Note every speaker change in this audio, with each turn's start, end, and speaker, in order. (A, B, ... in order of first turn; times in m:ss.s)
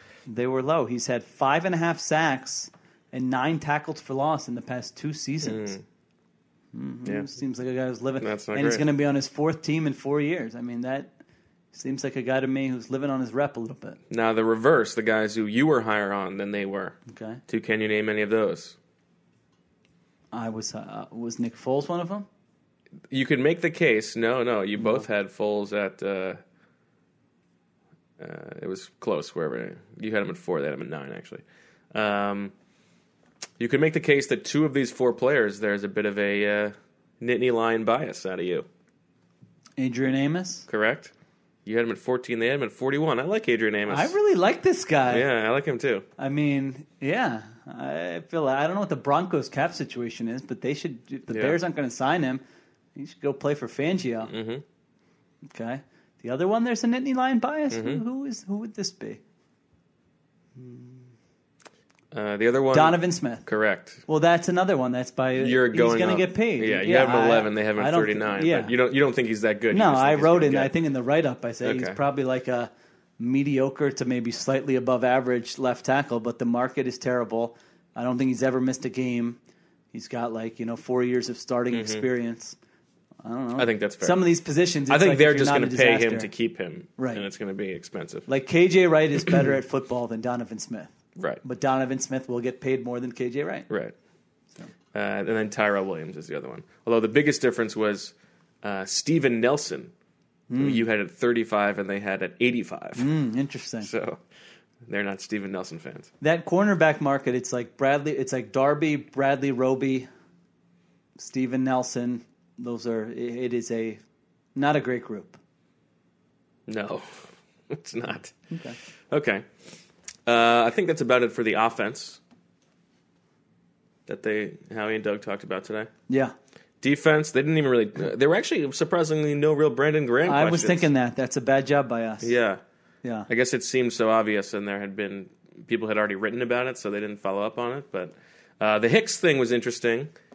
0:00.3-0:05.7 A
0:05.4-0:05.8 B
0:06.7-0:11.1 A
0:08.2-0:08.8 B
0:11.7-0:14.0 A
0:14.1-0:17.0 B
0:17.1-0:17.4 A
0:17.5-0:18.8 B
0:20.3-0:22.2 A
0:23.1-0:26.4 B
0:28.2-0:32.5 B
0:33.6-0:38.7 B
0:39.8-0:40.7 A
0:40.7-0:41.1 B
0:41.6-0:44.1 B
0:43.9-0:45.2 A
0:45.1-0:46.0 B
0:46.2-0:52.4 A
0:51.3-0:51.6 B
0:52.9-0:54.3 A
0:54.2-0:54.6 B
0:55.4-0:59.2 A
0:57.7-0:58.0 B
1:00.6-1:01.0 A
1:02.1-1:04.0 B
1:02.7-1:03.4 A
1:04.0-1:08.7 A
1:05.4-1:10.7 B
1:09.7-1:19.4 A
1:11.6-1:12.0 B
1:19.9-1:22.6 A
1:21.7-1:22.0 B
1:23.2-1:26.3 A
1:23.6-1:24.2 B
1:24.9-1:28.3 B
1:27.0-1:27.2 A
1:28.3-1:30.9 A
1:31.2-1:31.4 B
1:31.4-1:33.7 A
1:33.7-1:33.9 B
1:34.9-1:39.9 B
1:40.5-1:40.8 A
1:40.6-1:43.0 B
1:43.0-1:43.9 A
1:43.8-1:44.2 B
1:44.8-1:46.1 B
1:46.2-1:50.1 A
1:51.2-1:54.0 A
1:54.6-1:55.4 A
1:56.7-1:58.3 B
1:58.5-1:58.8 A
1:59.1-1:59.4 B
2:00.2-2:02.2 B
2:04.1-2:05.9 B
2:06.1-2:06.3 A
2:06.8-2:10.9 B
2:10.2-2:12.3 A
2:12.2-2:12.6 B
2:13.3-2:20.1 B